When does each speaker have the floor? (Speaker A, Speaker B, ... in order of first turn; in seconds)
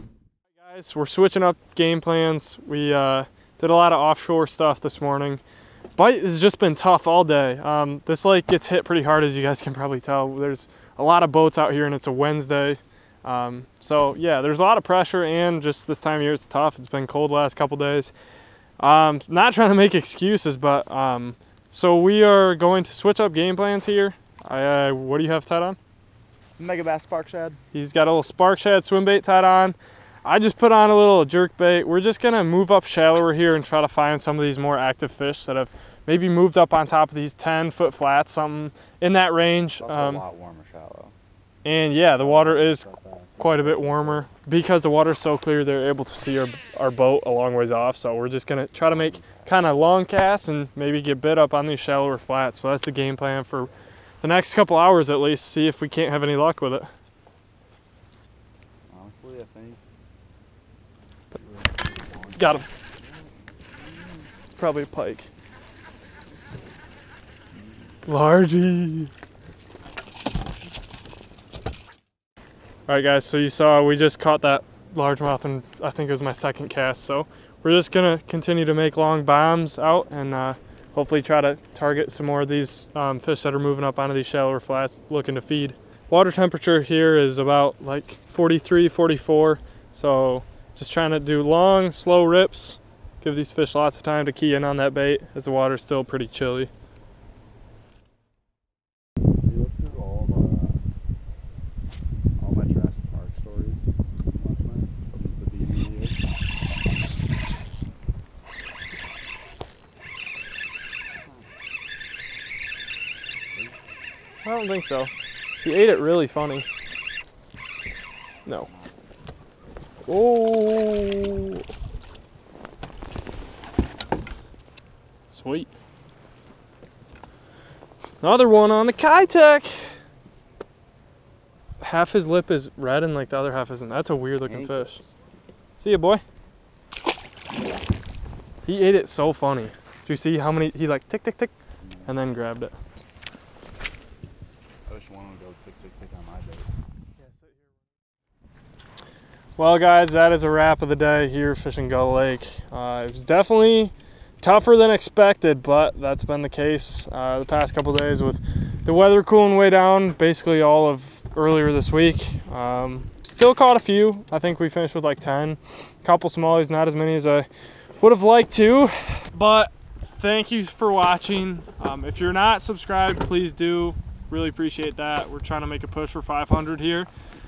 Speaker A: 0.6-5.4, 6.0-18.1, 18.8-25.8, 27.7-40.2, 41.6-42.9, 43.4-53.7, 54.2-56.9, 62.4-62.7, 64.5-65.3, 68.1-69.1, 72.9-96.7, 114.4-115.1, 115.6-116.7, 120.1-121.6, 125.3-125.7, 128.2-129.9, 131.8-135.0, 135.8-136.2, 138.7-141.5, 142.1-142.8, 147.2-147.6, 149.6-167.5, 168.0-177.1
Speaker B: 26.6-27.6, 39.8-41.1, 42.2-44.3, 48.8-49.5, 58.9-59.8, 61.5-64.3, 67.5-68.0, 99.4-100.8, 102.4-103.8, 104.3-106.2, 111.2-111.5, 118.6-119.0, 134.4-135.1, 141.8-142.2, 144.9-146.7